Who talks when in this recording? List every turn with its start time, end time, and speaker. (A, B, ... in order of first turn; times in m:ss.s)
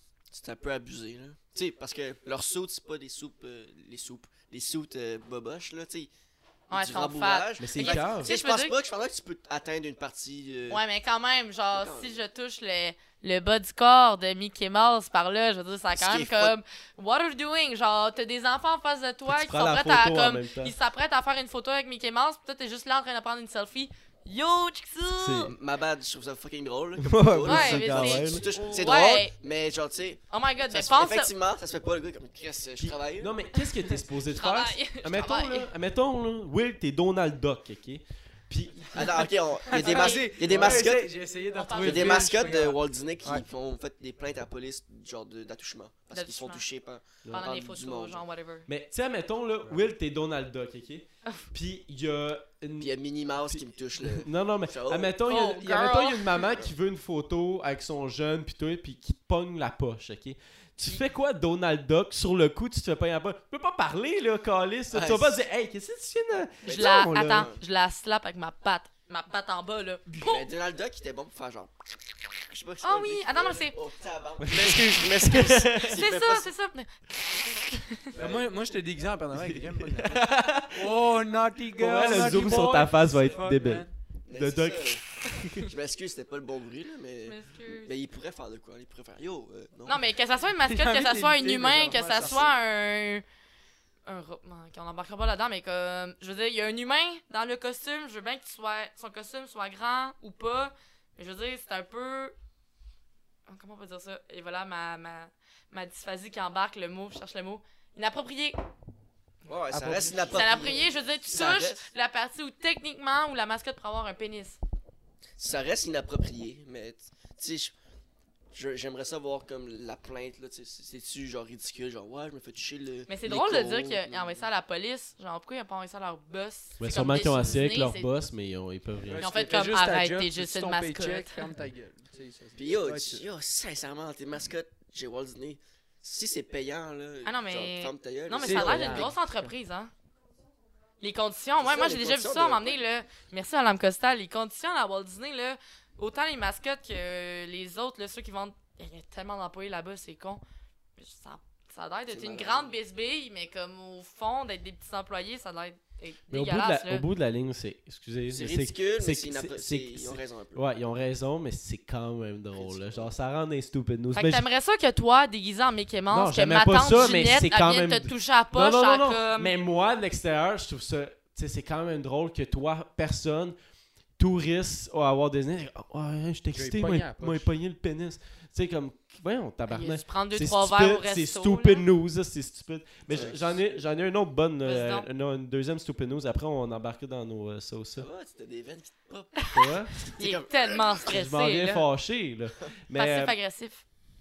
0:00.3-0:06.1 A
0:06.7-0:08.8 B
0:06.7-0:10.8 A
0:07.6-0:08.3 C
0:10.7-0:25.5 B
0:11.7-0:12.2 A
0:16.0-0:16.6 A
0:19.3-0:20.7 C
0:25.1-0:25.5 C
0:25.5-0:33.4 A
0:27.0-0:28.5 C
0:27.4-0:29.4 B
0:30.3-0:31.3 B
0:32.8-0:39.2 C
0:34.3-0:35.7 B
0:38.9-0:41.1 A
0:39.7-0:40.3 B
0:39.7-0:43.4 D
0:40.5-0:40.8 C
0:41.5-0:42.3 B
0:41.8-0:48.2 A
0:46.1-0:46.6 B
0:47.3-0:48.7 B
0:48.7-0:52.9 C
0:52.8-0:55.2 A
0:53.5-1:07.5 C
0:55.3-0:56.5 B
1:04.9-1:05.4 A
1:06.6-1:07.6 A
1:06.7-1:10.5 B
1:10.2-1:16.5 A
1:12.8-1:13.8 B
1:14.5-1:16.0 C
1:14.6-1:15.0 D
1:15.8-1:18.0 B
1:18.1-1:18.5 A
1:18.2-1:23.9 D
1:19.3-1:21.0 C
1:21.8-1:25.7 C
1:24.2-1:25.0 A
1:25.6-1:30.1 A
1:27.2-1:28.0 B
1:29.9-1:33.2 B
1:30.5-1:32.5 D
1:32.2-1:32.5 A
1:34.1-1:42.4 B
1:43.5-1:48.6 B
1:49.5-1:51.9 A
1:49.7-1:50.8 C
1:50.3-1:54.6 B
1:55.4-1:57.7 A
1:58.5-2:04.5 A
2:03.1-2:08.1 B
2:06.8-2:09.3 C
2:09.0-2:13.3 D
2:09.2-2:11.5 B
2:12.6-2:19.2 A
2:17.2-2:19.9 B
2:18.4-2:19.1 D
2:21.0-2:30.4 B
2:21.6-2:22.8 A
2:31.0-2:37.0 B
2:32.1-2:32.7 A
2:36.3-2:44.4 C
2:38.3-2:40.6 A
2:42.6-2:43.1 A
2:44.1-2:49.6 B
2:46.1-2:53.6 C
2:54.2-3:08.1 C
2:56.5-2:57.6 D
2:59.7-3:01.8 B
3:03.1-3:03.6 A
3:03.1-3:03.6 D
3:04.6-3:05.1 B
3:08.0-3:11.0 A
3:09.4-3:11.9 B
3:09.5-3:10.0 C
3:11.1-3:13.4 C
3:12.9-3:13.8 B